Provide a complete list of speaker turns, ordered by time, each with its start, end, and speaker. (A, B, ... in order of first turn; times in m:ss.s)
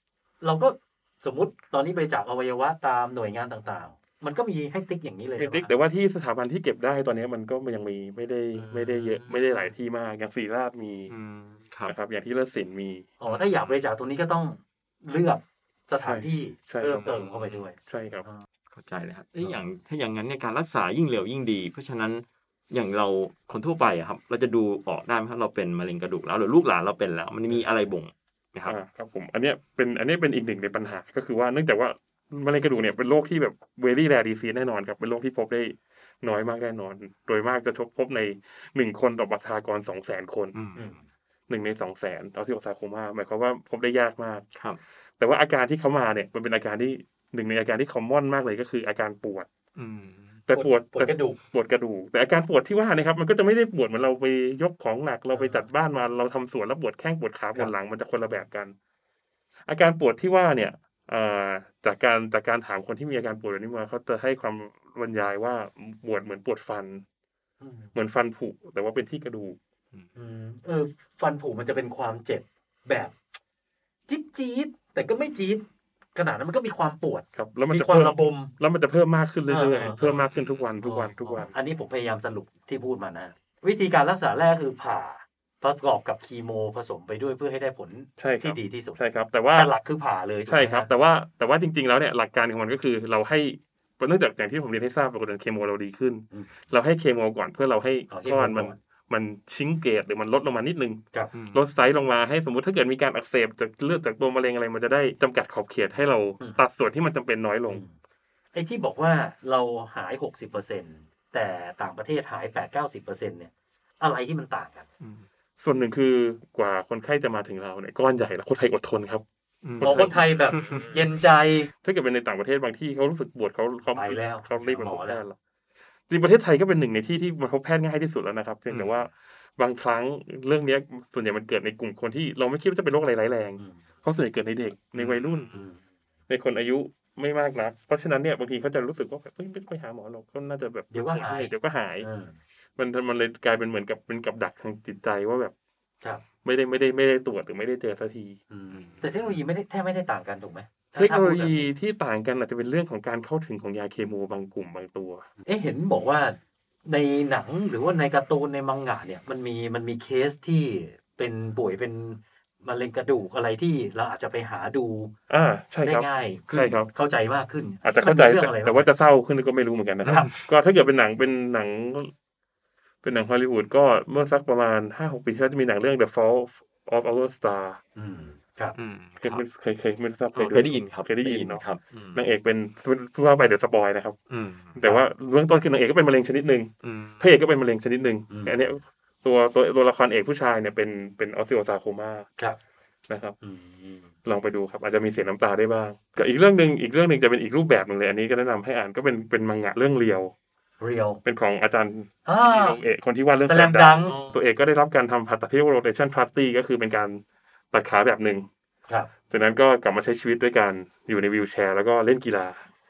0:00.4-0:05.7 A
0:05.4-0:11.1 B
0:08.6-0:09.7 A
0:11.1-0:12.0 C
0:11.9-0:13.1 B
0:13.2-0:18.4 A
0:13.3-0:13.8 C
0:16.0-0:17.1 B
0:17.0-0:17.6 C
0:17.8-0:18.3 B
0:18.7-0:28.8 C
0:19.4-0:19.6 A
0:28.7-0:40.6 B
0:40.6-0:40.9 C
0:40.8-0:41.0 A
0:41.5-0:44.4 B
0:44.6-0:44.8 C
0:45.2-0:49.5 B
0:49.8-0:50.3 C
0:50.5-0:58.7 B
0:50.5-0:51.4 A
0:55.3-0:55.6 A
0:59.7-1:07.0 B
1:07.6-1:07.9 A
1:07.9-1:09.6 B
1:10.1-1:13.1 A
1:14.1-1:15.6 A
1:16.1-1:18.5 A
1:17.4-1:21.5 B
1:19.5-1:20.3 A
1:20.8-1:29.0 A
1:28.2-1:29.7 B
1:29.5-1:30.9 A
1:30.5-1:47.8 B
1:38.1-1:38.8 A
1:41.3-1:41.6 C
1:48.5-1:54.9 A
1:55.6-1:59.2 B
1:59.6-2:00.9 C
1:59.8-2:00.1 B
1:59.8-2:01.7 A
2:01.8-2:05.4 B
2:03.9-2:05.2 A
2:06.1-2:15.5 B
2:08.7-2:09.1 C
2:15.0-2:15.6 C
2:15.5-2:15.8 A
2:16.3-2:22.1 B
2:20.9-2:22.4 A
2:22.8-2:25.5 B
2:26.4-2:28.4 B
2:28.5-2:31.7 A
2:28.7-2:29.3 C
2:31.0-2:35.3 B
2:35.4-2:45.1 A
2:45.3-2:46.9 B
2:45.8-2:48.9 A
2:47.8-2:52.1 B
2:50.1-2:50.3 A
2:53.0-2:57.8 B
2:58.0-2:58.8 A
2:58.8-2:59.4 C
2:59.2-3:04.2 B
3:00.4-3:02.2 C
3:04.3-3:04.7 C
3:04.8-3:12.3 B
3:06.8-3:07.2 C
3:08.3-3:08.6 A
3:13.1-3:13.4 B
3:13.4-3:14.0 A
3:14.2-3:20.3 B
3:20.8-3:21.2 A
3:21.2-3:28.5 B
3:22.2-3:22.8 A
3:23.4-3:24.2 A
3:28.9-3:29.1 A
3:29.3-3:32.6 B